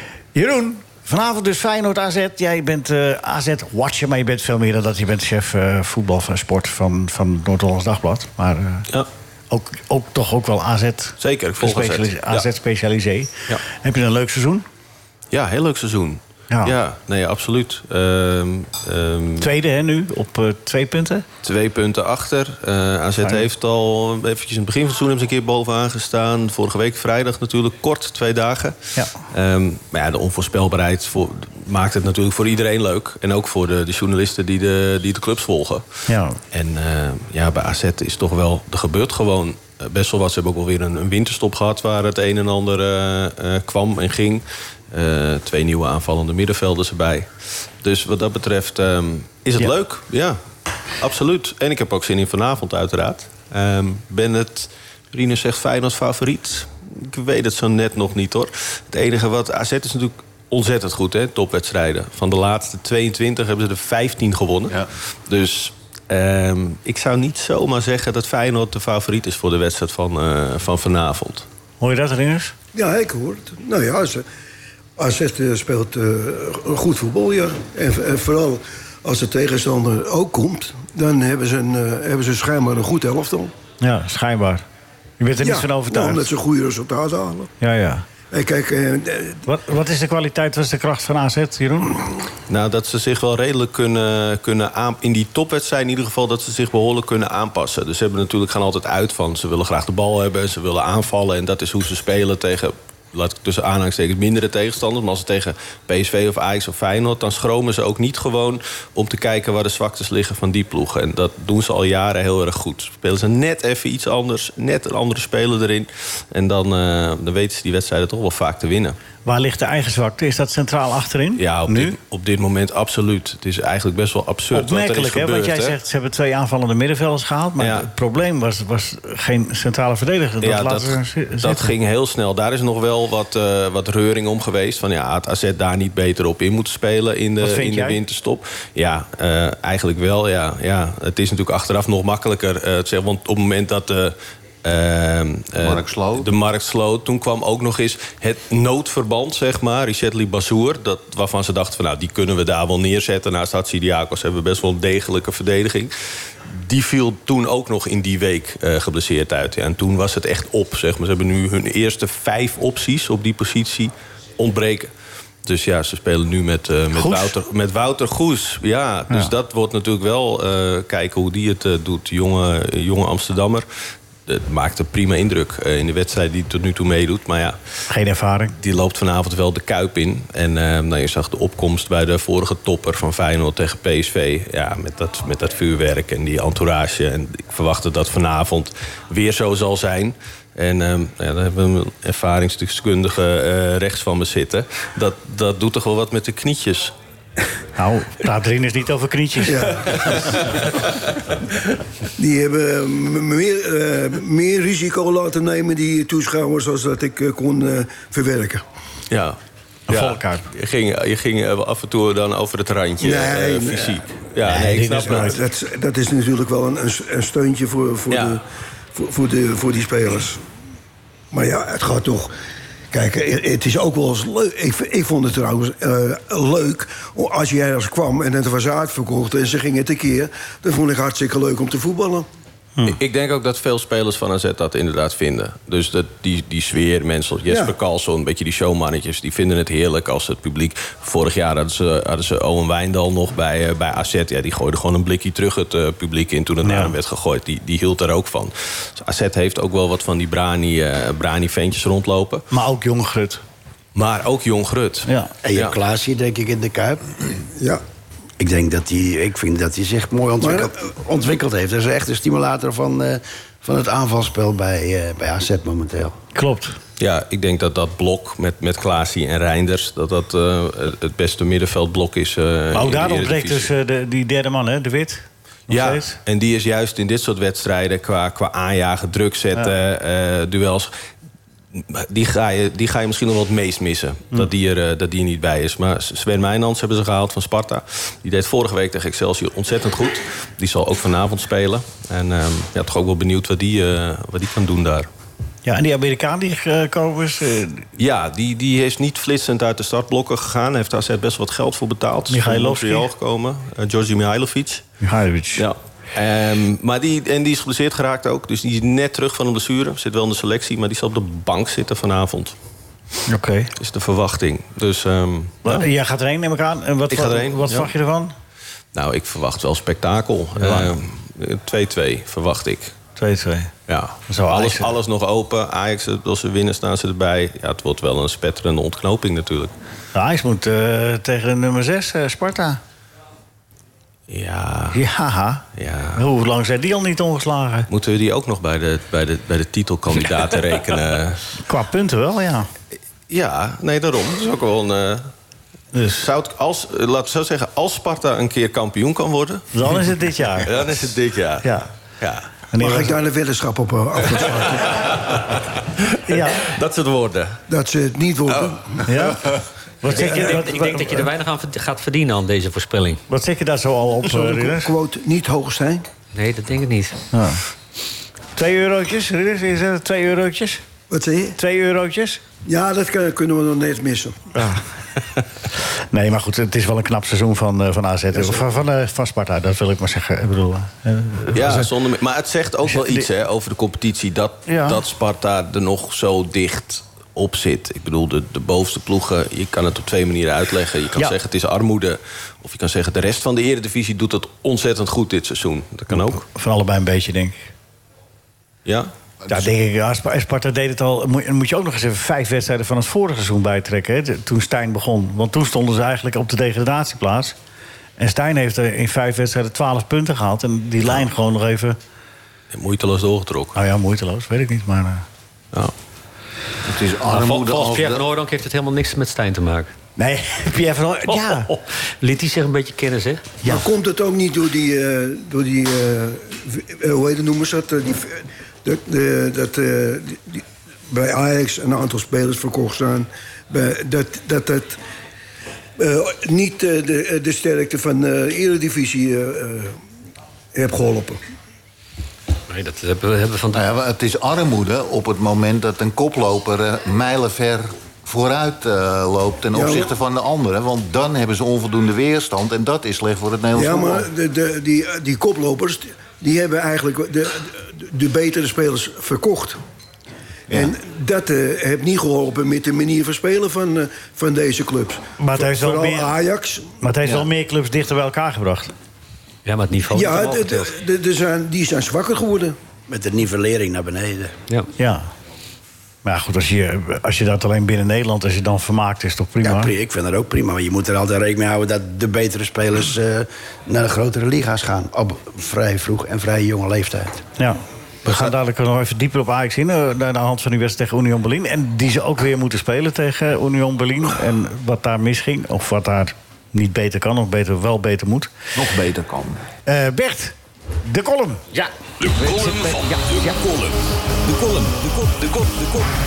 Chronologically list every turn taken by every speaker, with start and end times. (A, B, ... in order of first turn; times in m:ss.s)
0:00.4-0:08.9 A
0:09.5-0:14.6 A
0:11.2-0:12.5 B
0:15.3-0:19.5 B
0:19.4-0:21.2 A
0:21.4-0:28.8 B
0:29.3-0:35.9 B
0:36.1-0:36.4 A
0:36.5-0:47.3 B
0:47.8-0:50.4 B
0:51.0-1:11.5 B
1:11.8-1:12.5 A
1:12.8-1:14.2 C
1:15.0-1:23.5 C
1:23.8-1:24.6 A
1:25.2-1:26.3 A
1:25.4-1:27.5 C
1:27.6-1:28.0 A
1:28.3-1:29.4 C
1:29.5-1:32.0 A
1:32.5-1:59.0 B
1:59.2-2:02.0 A
2:01.4-2:05.8 B
2:04.5-2:11.7 A
2:07.6-2:07.9 B
2:10.4-2:35.9 B
2:17.4-2:18.0 A
2:25.6-2:26.3 D
2:36.5-2:44.9 B
2:45.4-2:53.6 B
2:47.0-2:47.3 A
2:54.3-2:57.6 B
2:57.9-2:58.6 A
2:58.6-3:16.9 B
3:17.8-3:20.1 A
3:19.5-3:20.1 C
3:22.2-3:28.6 C
3:29.1-3:29.4 B
3:29.9-3:30.5 A
3:29.9-3:35.3 B
3:33.0-3:34.0 C
3:34.4-3:35.4 A
3:35.2-3:38.4 C
3:38.1-3:38.4 B
3:38.9-3:40.4 C
3:41.3-3:42.3 C
3:42.9-3:52.3 C
3:52.9-4:12.4 B
4:06.6-4:06.9 A
4:12.5-4:13.4 A
4:13.9-4:15.8 B
4:15.1-4:15.3 A
4:15.4-4:17.2 E
4:18.4-4:26.2 E
4:20.4-4:20.7 C
4:26.4-4:26.8 A
4:27.0-4:33.7 B
4:32.7-4:36.2 A
4:35.7-4:40.9 B
4:41.7-4:55.1 B
4:55.6-4:57.8 A
4:58.0-5:04.8 B
5:02.3-5:03.1 A
5:05.0-5:05.6 A
5:05.6-5:12.6 B
5:13.3-5:13.7 A
5:13.8-5:15.8 B
5:15.6-5:18.3 A
5:17.1-5:17.9 B
5:18.9-5:22.9 B
5:20.6-5:20.9 A
5:23.2-5:23.7 A
5:23.9-5:29.7 B
5:24.3-5:24.9 A
5:30.1-5:32.8 A
5:34.3-5:35.0 B
5:34.9-5:37.9 A
5:35.8-5:36.2 B
5:37.9-5:41.5 B
5:41.6-5:42.7 A
5:43.3-5:45.3 B
5:45.9-5:46.2 A
5:46.2-5:50.0 B
5:49.7-5:50.9 A
5:50.6-5:51.7 B
5:52.2-5:52.5 B
5:52.7-5:53.2 A
5:52.8-5:55.0 C
5:55.0-5:57.6 B
5:56.3-5:56.7 A
5:57.7-5:59.3 C
5:59.1-5:59.4 A
6:00.0-6:01.3 A
6:00.1-6:03.2 F
6:00.1-6:00.6 C
6:03.3-6:04.9 A
6:04.2-6:06.0 C
6:06.3-6:07.2 F
6:07.3-6:07.6 A
6:08.6-6:10.8 A
6:11.1-6:11.6 C
6:11.6-6:12.4 A
6:12.6-6:14.4 C
6:14.6-6:14.8 A
6:16.1-6:21.9 A
6:21.5-6:36.4 B
6:22.9-6:23.3 A
6:24.7-6:25.0 A
6:36.1-6:37.7 A
6:38.8-6:39.1 B
6:39.5-6:47.6 A
6:48.2-6:52.0 A
6:52.7-6:53.8 B
6:53.7-6:55.2 A
6:56.8-6:58.3 D
6:57.3-6:59.9 F
7:00.2-7:01.7 A
7:01.3-7:03.6 F
7:03.6-7:15.0 C
7:16.0-7:19.9 C
7:20.7-7:21.4 C
7:22.7-7:23.8 F
7:23.7-7:34.3 D
7:29.7-7:30.1 C
7:33.8-7:39.8 C
7:40.7-7:46.9 C
7:45.4-7:46.3 A
7:47.0-7:48.9 A
7:49.6-7:50.9 F
7:50.1-7:52.7 C
7:53.1-7:54.6 E
7:55.0-7:55.3 A
7:56.2-7:59.9 A
7:59.6-8:07.4 E
8:07.6-8:18.5 A
8:18.7-8:19.6 D
8:19.9-8:21.6 A
8:22.2-8:26.1 G